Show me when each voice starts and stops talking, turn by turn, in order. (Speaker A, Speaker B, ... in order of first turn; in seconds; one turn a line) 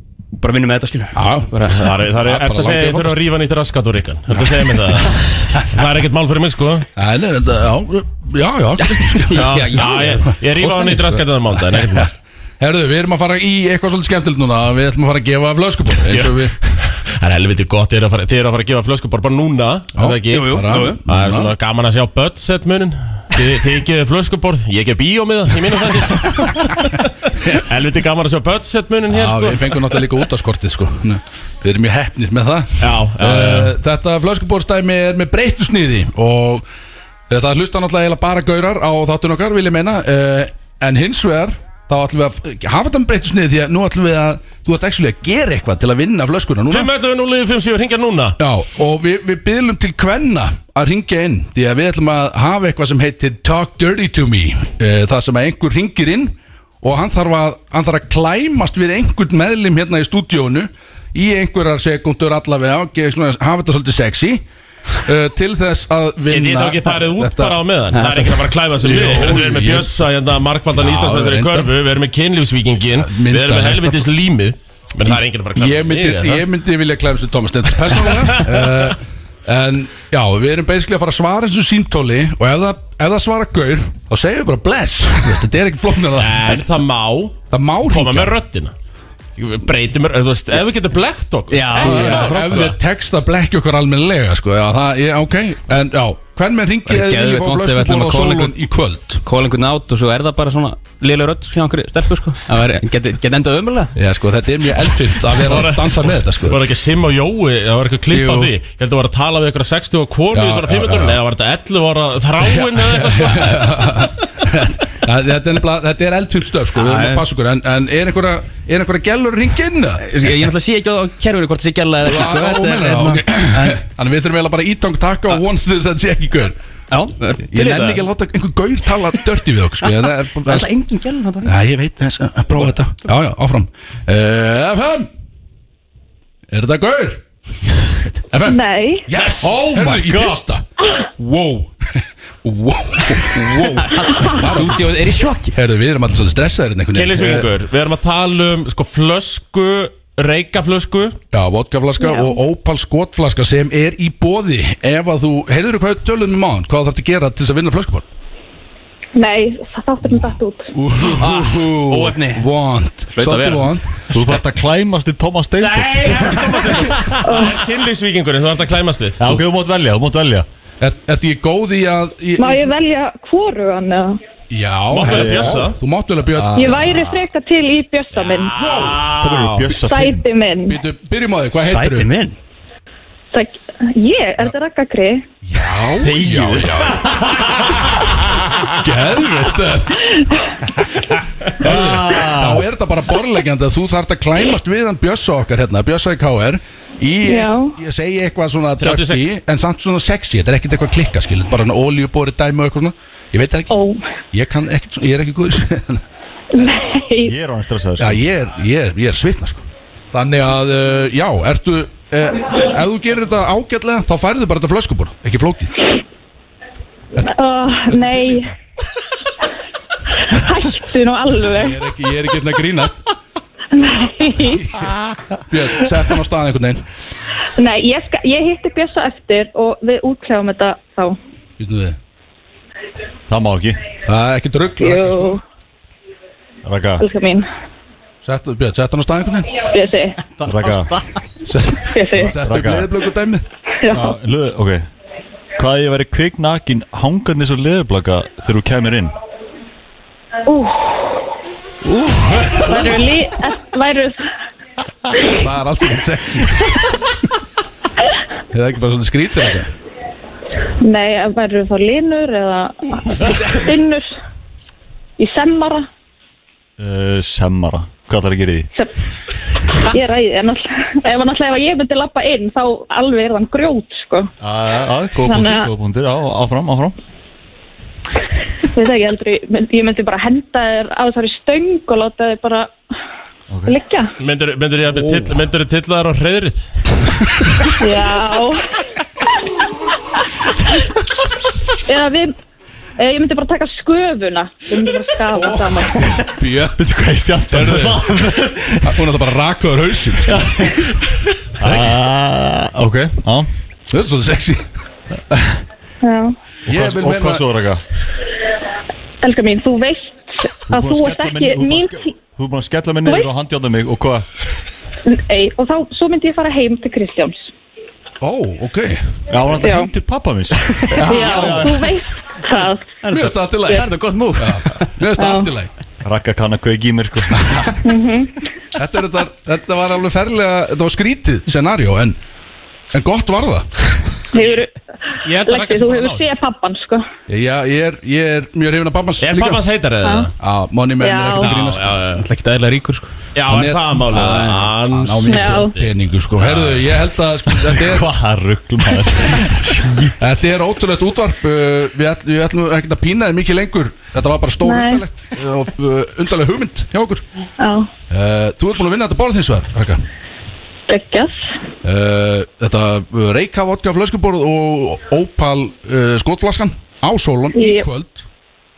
Speaker A: 0.3-1.9
Speaker B: 1.1-1.5
Speaker C: 1.7-6.9
Speaker B: 2.2-3.1
Speaker B: 7.0-9.5
Speaker A: 9.0-11.1
Speaker C: 9.3-12.1
Speaker B: 11.8-16.6
Speaker C: 16.1-30.0
Speaker B: 19.9-21.5
Speaker A: 20.3-21.0
Speaker B: 29.1-36.6
Speaker C: 32.8-33.7
Speaker B: 37.3-46.9
Speaker C: 46.7-48.4
Speaker B: 48.4-64.4
Speaker B: 65.0-67.6
Speaker C: 66.3-76.5
Speaker A: 67.9-68.3
Speaker B: 68.8-69.9
Speaker B: 70.7-71.7
Speaker B: 73.0-74.1
Speaker B: 75.1-86.7
Speaker C: 77.9-78.8
Speaker C: 86.2-88.7
Speaker B: 87.5-88.3
Speaker C: 89.4-92.7
Speaker A: 91.5-92.7
Speaker B: 91.7-99.2
Speaker A: 96.9-98.5
Speaker A: 99.2-103.9
Speaker B: 104.0-106.6
Speaker C: 105.4-113.9
Speaker B: 108.1-108.5
Speaker B: 110.3-111.2
Speaker B: 112.4-120.1
Speaker A: 116.8-117.2
Speaker A: 120.0-123.8
Speaker B: 122.0-126.5
Speaker A: 126.9-128.0
Speaker B: 127.5-130.7
Speaker A: 130.4-131.5
Speaker B: 131.4-135.1
Speaker B: 136.5-137.2
Speaker B: 138.2-140.6
Speaker D: 138.4-139.1
Speaker E: 139.4-140.4
Speaker B: 141.2-144.9
Speaker A: 143.6-145.6
Speaker B: 145.5-147.5
Speaker C: 146.9-151.2
Speaker B: 151.3-158.0
Speaker D: 152.0-152.4
Speaker D: 159.2-160.7
Speaker B: 160.7-163.8
Speaker A: 161.1-162.4
Speaker A: 163.1-163.8
Speaker E: 164.1-166.4
Speaker C: 165.6-169.3
Speaker D: 167.2-167.6
Speaker E: 169.2-170.4
Speaker B: 170.8-172.7
Speaker D: 172.4-174.2
Speaker B: 174.5-176.8
Speaker C: 174.9-175.8
Speaker E: 175.0-175.7
Speaker E: 176.3-177.2
Speaker D: 176.6-178.5
Speaker B: 178.5-179.0
Speaker C: 178.6-179.7
Speaker E: 179.0-180.2
Speaker D: 179.8-180.8
Speaker B: 180.7-182.1
Speaker A: 181.6-182.4
Speaker D: 183.3-185.2
Speaker B: 185.4-187.8
Speaker E: 186.0-187.5
Speaker B: 188.8-190.1
Speaker B: 190.7-203.7
Speaker E: 191.6-192.7
Speaker D: 197.2-197.7
Speaker C: 198.8-199.2
Speaker D: 203.7-204.0
Speaker B: 204.3-206.0
Speaker D: 206.5-207.3
Speaker E: 207.2-208.2
Speaker B: 208.0-215.8
Speaker D: 217.2-218.5
Speaker B: 217.8-218.6
Speaker D: 220.3-221.8
Speaker B: 221.5-223.0
Speaker D: 223.7-224.6
Speaker B: 224.4-226.8
Speaker D: 227.6-231.2
Speaker B: 231.6-232.0
Speaker E: 233.3-233.8
Speaker B: 234.1-235.4
Speaker D: 234.8-235.4
Speaker E: 236.6-237.1
Speaker D: 237.0-237.4
Speaker B: 238.2-239.6
Speaker D: 239.6-240.3
Speaker E: 240.4-241.0
Speaker B: 241.4-243.4
Speaker D: 241.9-242.3
Speaker E: 242.1-242.9
Speaker D: 243.8-244.1
Speaker E: 243.9-244.8
Speaker E: 245.6-249.2
Speaker D: 250.4-251.2
Speaker B: 251.8-253.0
Speaker D: 252.7-254.2
Speaker B: 255.3-257.0
Speaker B: 258.5-259.7
Speaker D: 260.8-264.1
Speaker D: 265.2-265.9
Speaker E: 266.8-268.7
Speaker D: 269.9-274.3
Speaker E: 274.4-276.9
Speaker D: 275.2-275.7
Speaker D: 278.7-282.7
Speaker E: 283.5-283.8
Speaker D: 283.7-284.1
Speaker C: 284.2-286.6
Speaker B: 284.9-285.4
Speaker D: 287.8-288.6
Speaker D: 291.9-292.3
Speaker D: 293.0-296.0
Speaker B: 295.4-296.8
Speaker E: 296.8-299.0
Speaker B: 297.5-298.1
Speaker B: 298.8-300.8
Speaker E: 300.3-300.8
Speaker E: 301.6-303.5
Speaker B: 303.9-304.7
Speaker E: 305.3-305.6
Speaker D: 306.0-306.3
Speaker B: 306.7-307.4
Speaker E: 306.7-307.8
Speaker D: 309.2-312.1
Speaker E: 310.7-314.2
Speaker D: 315.1-317.5
Speaker B: 318.2-319.1
Speaker E: 319.3-321.9
Speaker D: 319.6-319.9
Speaker A: 321.0-321.6
Speaker D: 321.1-323.0
Speaker B: 321.3-321.6
Speaker A: 323.0-324.9
Speaker B: 323.1-325.7
Speaker D: 325.1-325.5
Speaker E: 326.0-327.8
Speaker D: 327.8-328.3
Speaker B: 328.8-332.2
Speaker B: 332.9-333.8
Speaker D: 334.3-334.7
Speaker C: 335.2-336.3
Speaker D: 335.4-337.1
Speaker B: 337.3-339.6
Speaker C: 339.2-340.3
Speaker D: 340.0-340.3
Speaker B: 340.4-341.9
Speaker D: 341.0-341.5
Speaker C: 341.4-342.2
Speaker A: 342.1-343.1
Speaker C: 343.3-346.9
Speaker B: 343.5-348.1
Speaker D: 345.2-345.7
Speaker E: 347.7-350.4
Speaker B: 350.2-357.2
Speaker D: 354.6-355.0
Speaker D: 357.6-357.9
Speaker B: 358.1-360.0
Speaker D: 360.9-361.3
Speaker B: 361.8-368.2
Speaker D: 367.5-367.9